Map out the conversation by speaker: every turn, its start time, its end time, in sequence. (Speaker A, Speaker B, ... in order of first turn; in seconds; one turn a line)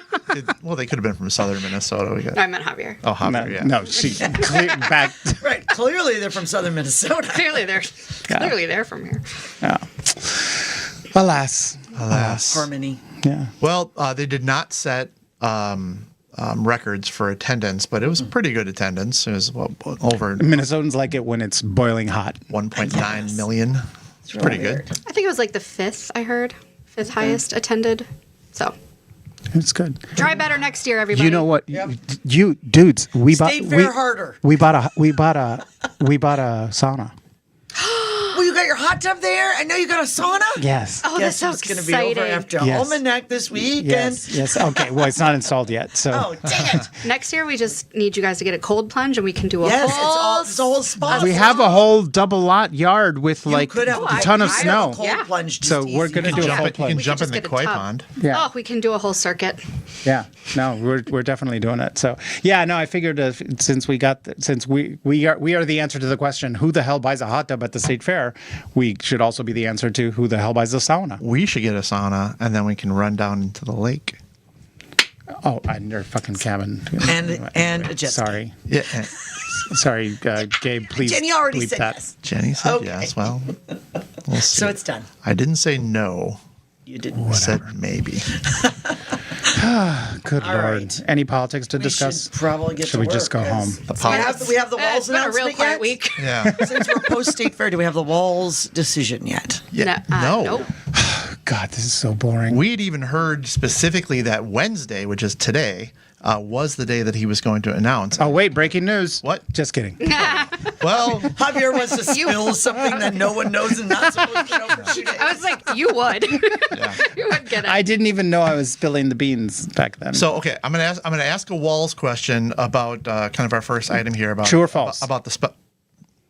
Speaker A: 0.3-2.4
Speaker B: 2.4-3.0
Speaker A: 3.0-3.8
Speaker C: 3.2-5.4
Speaker B: 4.0-4.8
Speaker D: 5.4-7.6
Speaker B: 7.3-9.4
Speaker C: 9.6-12.5
Speaker A: 11.9-12.7
Speaker D: 12.4-13.0
Speaker C: 13.2-13.5
Speaker A: 13.6-20.6
Speaker C: 20.4-22.4
Speaker A: 22.5-23.8
Speaker D: 24.3-25.0
Speaker A: 24.4-24.8
Speaker B: 25.1-28.8
Speaker C: 29.5-30.2
Speaker B: 30.2-31.5
Speaker C: 31.1-37.1
Speaker D: 33.2-34.4
Speaker D: 37.9-45.0
Speaker C: 40.5-41.1
Speaker B: 41.0-42.5
Speaker C: 42.6-43.0
Speaker C: 43.6-46.3
Speaker D: 46.1-46.9
Speaker B: 47.0-51.8
Speaker D: 49.6-51.7
Speaker C: 51.1-55.0
Speaker D: 53.5-56.5
Speaker B: 53.9-55.3
Speaker C: 55.6-57.0
Speaker A: 56.2-58.1
Speaker B: 56.4-59.6
Speaker C: 58.2-58.5
Speaker C: 60.0-71.2
Speaker A: 71.2-74.2
Speaker C: 75.4-78.6
Speaker D: 77.0-78.4
Speaker A: 78.7-79.2
Speaker C: 79.5-82.0
Speaker D: 80.9-83.1
Speaker A: 82.2-83.6
Speaker A: 84.2-86.4
Speaker D: 84.5-85.1
Speaker D: 86.9-87.3
Speaker C: 87.2-87.6
Speaker A: 87.3-88.4
Speaker D: 88.5-88.9
Speaker C: 89.5-93.8
Speaker D: 90.4-91.0
Speaker D: 91.8-99.7
Speaker A: 93.9-94.4
Speaker B: 94.0-96.5
Speaker A: 96.2-96.5
Speaker C: 96.4-97.1
Speaker A: 99.7-100.7
Speaker B: 99.8-100.7
Speaker C: 100.9-102.6
Speaker A: 102.5-108.4
Speaker C: 108.2-110.4
Speaker B: 110.1-110.8
Speaker A: 110.7-111.3
Speaker D: 111.3-115.5
Speaker B: 114.7-117.8
Speaker A: 116.7-117.0
Speaker C: 117.6-120.2
Speaker A: 120.1-125.5
Speaker C: 124.4-125.1